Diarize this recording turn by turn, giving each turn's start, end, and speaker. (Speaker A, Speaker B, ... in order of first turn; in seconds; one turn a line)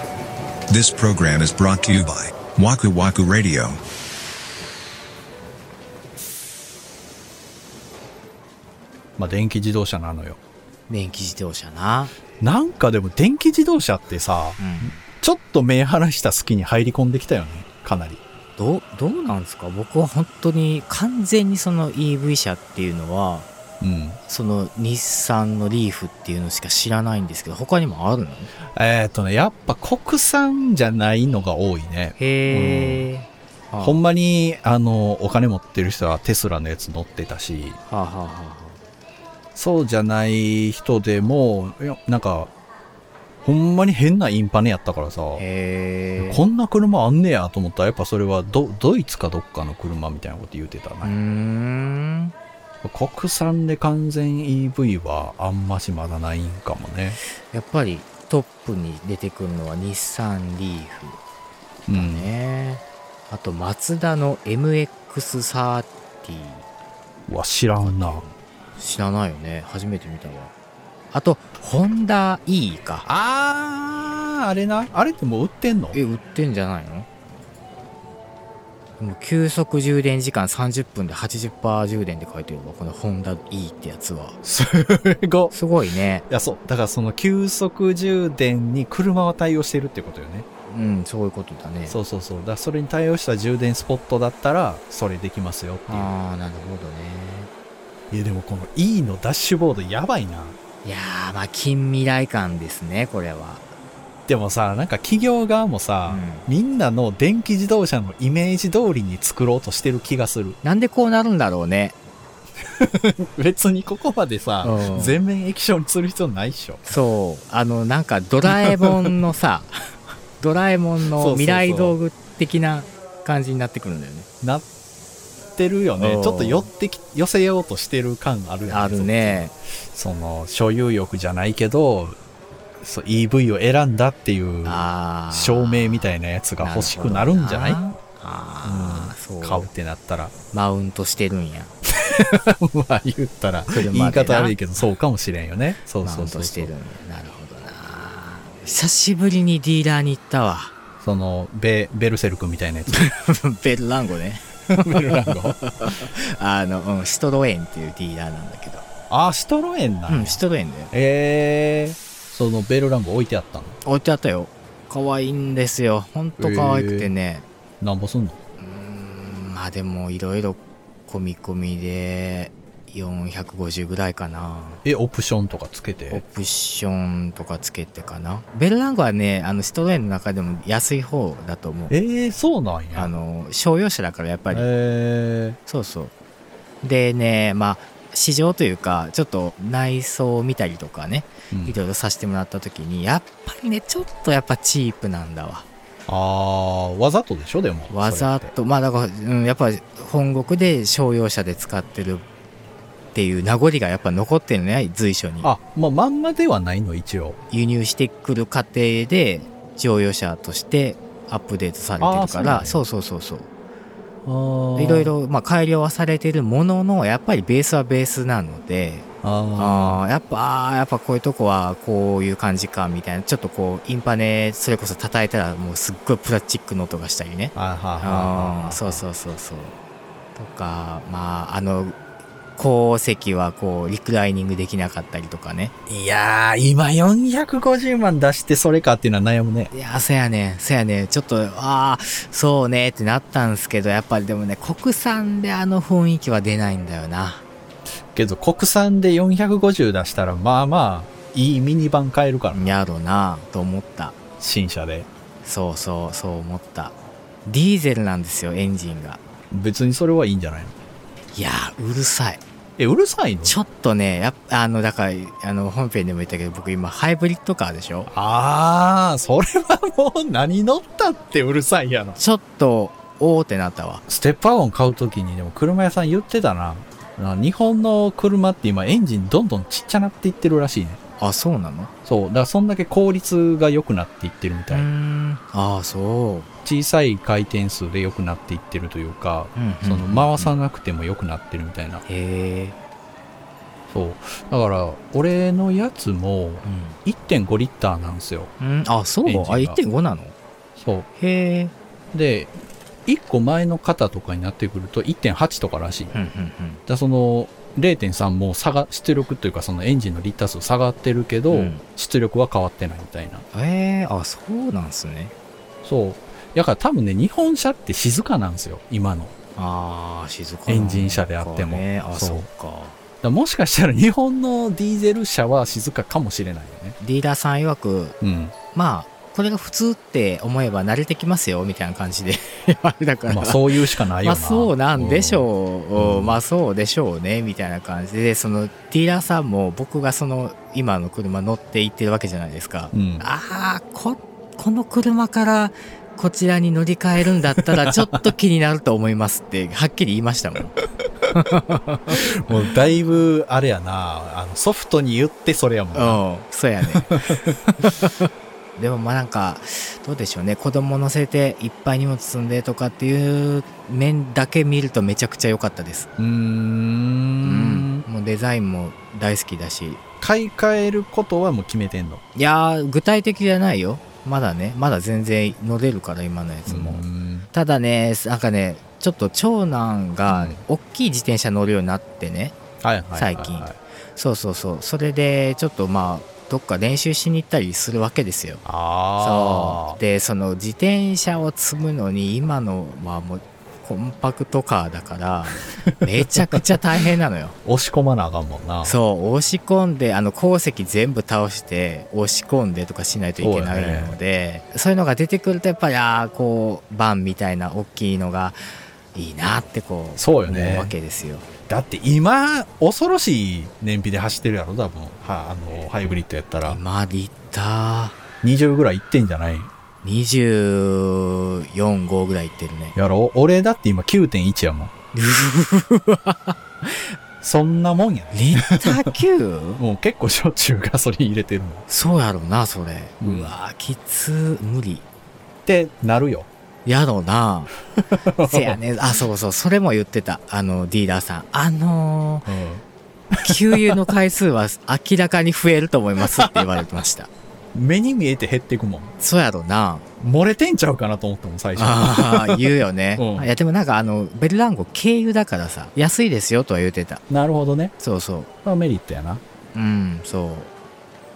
Speaker A: 0.7-3.8
Speaker B: 9.2-10.4
Speaker C: 10.9-12.2
Speaker B: 12.4-18.2
Speaker C: 14.6-15.0
Speaker C: 18.6-23.5
Speaker B: 23.8-24.2
Speaker C: 24.3-28.5
Speaker B: 28.7-33.1
Speaker C: 32.2-34.0
Speaker B: 33.8-37.8
Speaker C: 37.9-38.8
Speaker B: 39.5-42.5
Speaker B: 43.4-45.4
Speaker C: 45.4-46.4
Speaker B: 46.2-51.1
Speaker C: 51.0-52.3
Speaker B: 52.8-57.2
Speaker C: 57.4-61.2
Speaker B: 61.9-62.3
Speaker C: 61.9-66.7
Speaker B: 67.3-68.2
Speaker C: 67.8-70.5
Speaker C: 71.1-73.1
Speaker B: 73.0-76.0
Speaker C: 75.9-77.1
Speaker C: 79.0-84.4
Speaker B: 84.4-85.5
Speaker C: 85.5-86.2
Speaker B: 86.3-90.5
Speaker C: 90.7-92.0
Speaker B: 91.9-96.1
Speaker C: 95.9-97.5
Speaker B: 98.1-100.6
Speaker C: 100.8-103.7
Speaker B: 104.3-110.6
Speaker C: 106.1-106.5
Speaker C: 110.6-112.0
Speaker B: 112.8-117.0
Speaker C: 114.6-115.2
Speaker C: 116.9-119.7
Speaker B: 118.4-119.2
Speaker C: 120.4-124.3
Speaker B: 121.2-122.0
Speaker B: 125.6-132.2
Speaker C: 126.0-126.7
Speaker C: 128.7-129.5
Speaker B: 132.8-137.8
Speaker C: 134.7-139.7
Speaker B: 138.6-140.3
Speaker C: 140.5-141.7
Speaker B: 141.9-146.7
Speaker C: 143.7-144.6
Speaker C: 146.0-150.7
Speaker B: 151.0-153.1
Speaker C: 152.9-158.9
Speaker B: 154.8-155.6
Speaker B: 159.1-163.8
Speaker C: 160.1-160.9
Speaker C: 163.8-167.5
Speaker B: 166.4-167.1
Speaker B: 167.8-168.4
Speaker C: 168.6-174.8
Speaker B: 174.8-176.2
Speaker C: 176.1-181.9
Speaker B: 181.9-183.1
Speaker C: 182.9-184.7
Speaker B: 184.5-185.6
Speaker C: 185.7-186.1
Speaker C: 186.8-195.7
Speaker B: 191.5-191.8
Speaker B: 196.1-198.5
Speaker C: 197.9-202.2
Speaker C: 203.1-205.5
Speaker B: 205.4-207.4
Speaker C: 207.5-213.5
Speaker B: 212.0-212.8
Speaker B: 214.2-215.1
Speaker C: 214.8-229.8
Speaker B: 219.2-220.0
Speaker B: 227.5-229.0
Speaker C: 230.3-232.0
Speaker C: 232.6-235.7
Speaker B: 235.9-239.7
Speaker C: 239.7-247.4
Speaker B: 248.1-252.8
Speaker C: 252.5-254.2
Speaker B: 254.4-255.1
Speaker C: 255.4-259.2
Speaker B: 259.5-260.8
Speaker C: 261.3-262.4
Speaker B: 262.8-263.6
Speaker C: 263.4-268.1
Speaker B: 268.1-272.2
Speaker C: 272.2-274.0
Speaker B: 274.1-281.0
Speaker C: 281.2-281.9
Speaker B: 282.1-284.9
Speaker C: 284.7-286.5
Speaker B: 286.6-292.0
Speaker C: 289.6-290.5
Speaker C: 292.1-292.8
Speaker B: 293.9-298.5
Speaker C: 296.6-297.0
Speaker C: 298.6-300.4
Speaker B: 299.3-299.8
Speaker B: 300.8-301.1
Speaker C: 301.1-301.7
Speaker B: 302.1-302.5
Speaker B: 303.1-306.1
Speaker C: 306.1-306.8
Speaker B: 306.9-313.4
Speaker C: 311.5-311.8
Speaker C: 313.5-315.3
Speaker B: 315.8-319.3
Speaker C: 319.6-323.0
Speaker B: 320.7-322.5
Speaker B: 323.2-327.0
Speaker C: 327.0-328.2
Speaker B: 328.2-328.6
Speaker C: 328.7-350.7
Speaker B: 333.3-336.4
Speaker B: 342.9-343.3
Speaker B: 347.6-348.0
Speaker C: 351.4-352.7
Speaker B: 352.1-356.2
Speaker C: 355.9-358.1
Speaker B: 356.9-357.4
Speaker C: 358.8-366.1
Speaker B: 366.2-368.1
Speaker C: 367.4-370.0
Speaker B: 370.2-372.2
Speaker C: 372.4-382.6
Speaker B: 376.7-377.5
Speaker B: 380.3-380.6
Speaker B: 382.8-383.8
Speaker C: 383.1-388.6
Speaker B: 388.6-390.0
Speaker C: 389.2-397.6
Speaker B: 395.5-396.6
Speaker B: 397.6-399.0
Speaker C: 398.8-408.6
Speaker B: 403.4-404.2
Speaker C: 409.1-411.5
Speaker B: 410.2-410.9
Speaker B: 411.7-416.8
Speaker C: 416.6-418.2
Speaker B: 418.4-419.7
Speaker C: 420.0-423.0
Speaker B: 422.9-424.9
Speaker C: 425.1-427.2
Speaker B: 427.4-429.2
Speaker C: 428.3-429.8
Speaker B: 429.8-431.8
Speaker C: 431.9-435.1
Speaker B: 433.2-433.5
Speaker B: 435.7-436.5
Speaker C: 436.9-437.7
Speaker B: 438.0-438.8
Speaker C: 438.4-442.5
Speaker B: 442.4-444.0
Speaker C: 443.4-447.3
Speaker B: 446.3-446.8
Speaker B: 447.7-449.1
Speaker C: 449.2-450.1
Speaker B: 450.2-453.5
Speaker C: 451.8-457.2
Speaker B: 457.3-457.9
Speaker C: 458.0-458.5
Speaker B: 458.6-459.4
Speaker C: 459.7-460.7